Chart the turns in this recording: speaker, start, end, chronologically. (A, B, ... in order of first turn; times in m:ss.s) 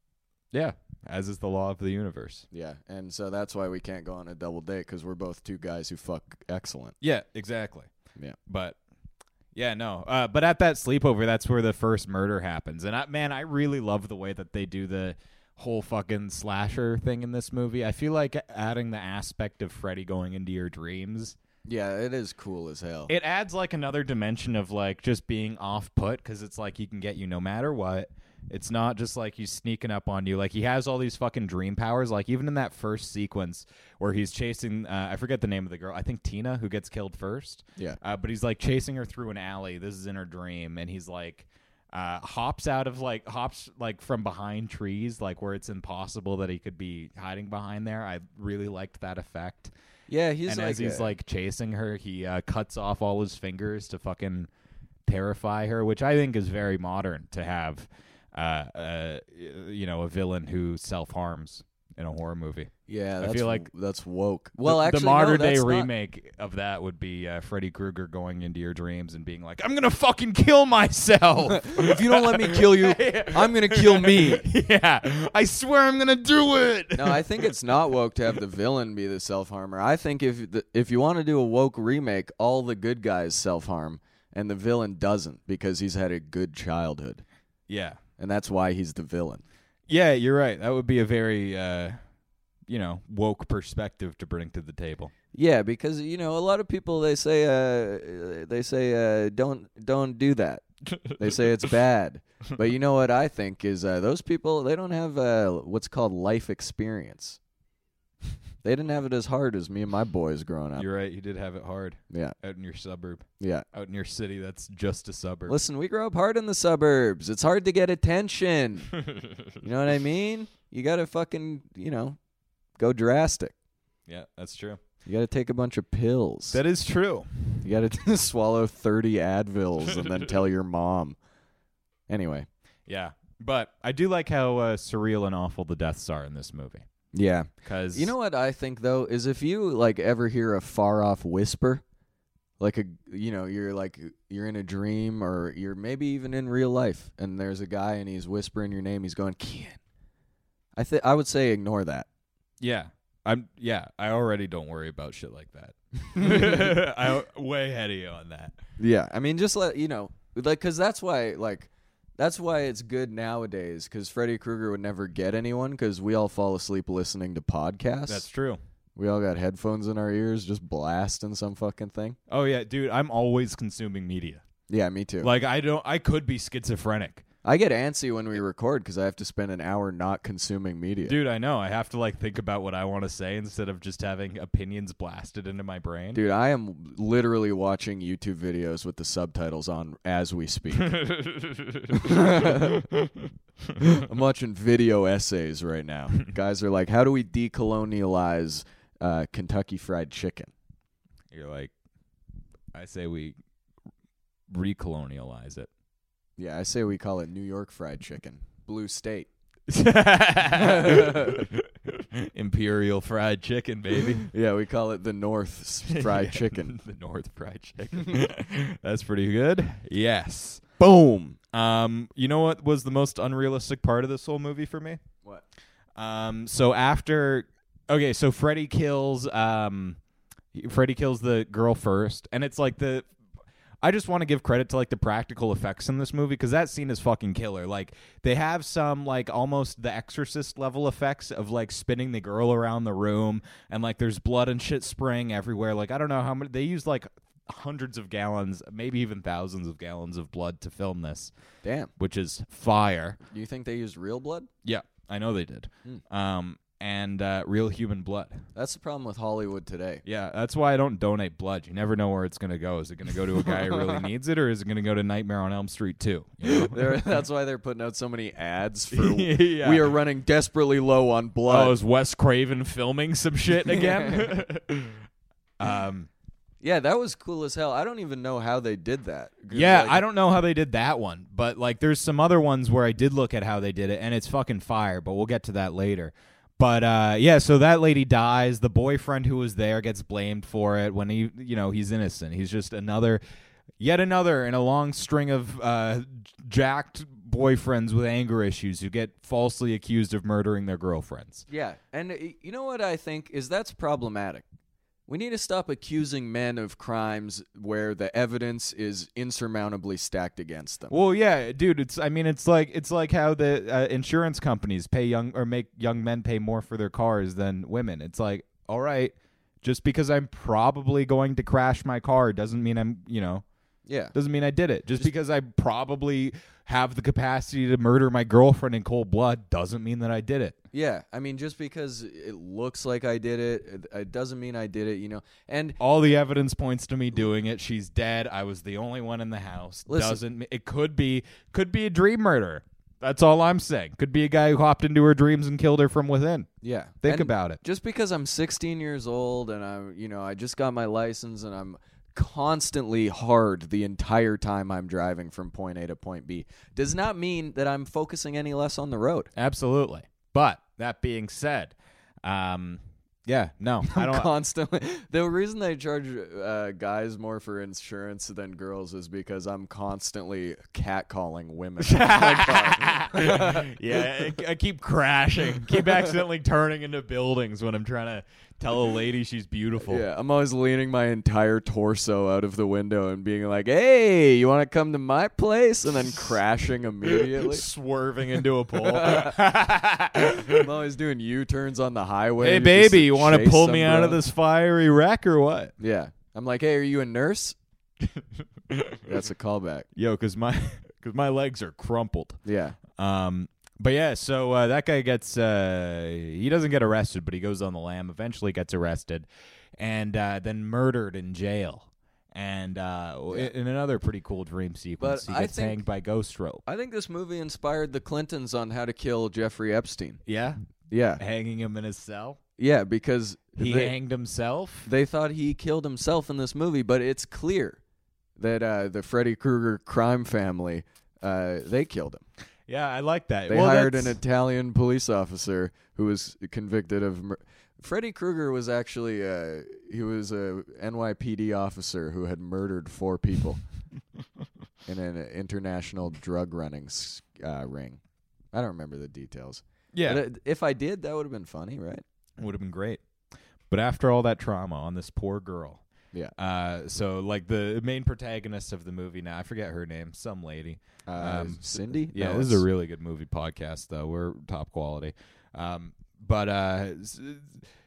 0:00.5-0:02.5 A
0:02.5-0:07.0 B
0:07.0-0:07.9 A
0:08.5-0:08.8 A
0:09.6-0:21.4 A
0:21.6-0:23.1 B
0:23.1-0:49.7 A
0:50.1-0:51.1 B
0:50.5-0:54.5 A
0:55.1-1:03.7 A
1:02.9-1:05.9 B
1:04.6-1:17.5 A
1:11.5-1:14.5 B
1:17.0-1:27.2 B
1:27.7-1:28.0 A
1:28.2-1:29.4 B
1:29.9-1:32.0 A
1:32.7-1:35.1 A
1:35.3-1:40.6 B
1:40.9-1:41.4 A
1:41.2-1:47.4 B
1:48.6-1:50.9 B
1:50.8-1:55.6 A
1:52.1-1:52.4 B
1:53.4-1:53.7 B
1:55.5-1:58.9 B
1:59.6-2:02.2 B
2:02.8-2:03.5 B
2:04.1-2:04.8 A
2:05.0-2:06.6 B
2:06.5-2:07.5 A
2:07.6-2:11.2 B
2:12.1-2:12.5 B
2:12.9-2:16.9 A
2:17.1-2:21.8 B
2:17.6-2:18.1 A
2:22.6-2:29.8 B
2:30.8-2:32.1 B
2:32.6-2:38.6 A
2:36.2-2:36.8 B
2:38.8-2:48.2 B
2:48.1-2:48.6 A
2:49.0-2:52.2 B
2:52.3-2:54.4 A
2:54.7-2:55.3 B
2:55.2-2:57.2 A
2:57.4-3:01.2 B
3:01.1-3:06.2 A
3:06.2-3:11.0 B
3:10.8-3:13.3 A
3:11.9-3:12.8 B
3:13.8-3:20.5 B
3:21.3-3:21.7 A
3:22.7-3:23.4 A
3:24.5-3:25.7 A
3:26.4-3:29.3 B
3:29.7-3:34.3 A
3:30.5-3:31.5 B
3:34.3-3:36.7 B
3:35.9-3:40.6 A
3:40.8-3:41.4 B
3:41.5-3:45.0 A
3:46.0-3:50.0 A
3:50.5-3:53.1 A
3:53.8-4:11.3 A
4:11.6-4:11.9 B
4:12.0-4:13.2 A
4:13.3-4:14.5 B
4:14.6-4:18.4 A
4:18.6-4:20.0 B
4:20.0-4:27.0 A
4:23.4-4:24.0 B
4:26.4-4:31.8 B
4:28.9-4:29.9 A
4:31.5-4:35.0 A
4:33.6-4:34.4 B
4:35.6-4:36.1 A
4:36.6-4:40.0 B
4:39.5-4:53.2 A
4:53.8-5:01.5 A
5:01.5-5:04.4 B
5:05.1-5:11.0 B
5:10.9-5:23.4 A
5:23.9-5:24.2 B
5:24.1-5:30.6 A
5:30.7-5:35.8 B
5:35.8-5:46.5 A
5:39.9-5:40.2 B
5:46.6-5:59.3 B
5:47.0-5:47.6 A
5:59.4-6:04.3 A
6:03.9-6:14.4 B
6:11.8-6:20.0 A
6:15.7-6:16.1 B
6:19.8-6:27.6 B
6:27.0-6:30.7 A
6:28.8-6:29.4 B
6:30.2-6:34.2 B
6:32.4-6:35.7 A
6:35.8-6:37.6 B
6:38.2-6:39.1 A
6:39.1-6:39.9 B
6:40.0-6:42.4 A
6:42.5-6:42.8 B
6:43.0-6:49.3 A
6:49.8-6:56.6 A
6:55.0-6:55.8 B
6:56.7-7:00.2 B
7:00.3-7:00.6 A
7:00.9-7:01.2 B
7:01.2-7:02.4 A
7:02.6-7:04.0 B
7:03.6-7:04.9 A
7:04.9-7:07.8 B
7:08.4-7:12.2 B
7:12.7-7:14.2 A
7:13.5-7:23.6 B
7:24.9-7:28.0 B
7:28.5-7:32.0 B
7:29.9-7:30.2 A
7:32.4-7:33.0 A
7:33.7-7:35.8 A
7:36.4-7:47.5 A
7:41.1-7:42.6 B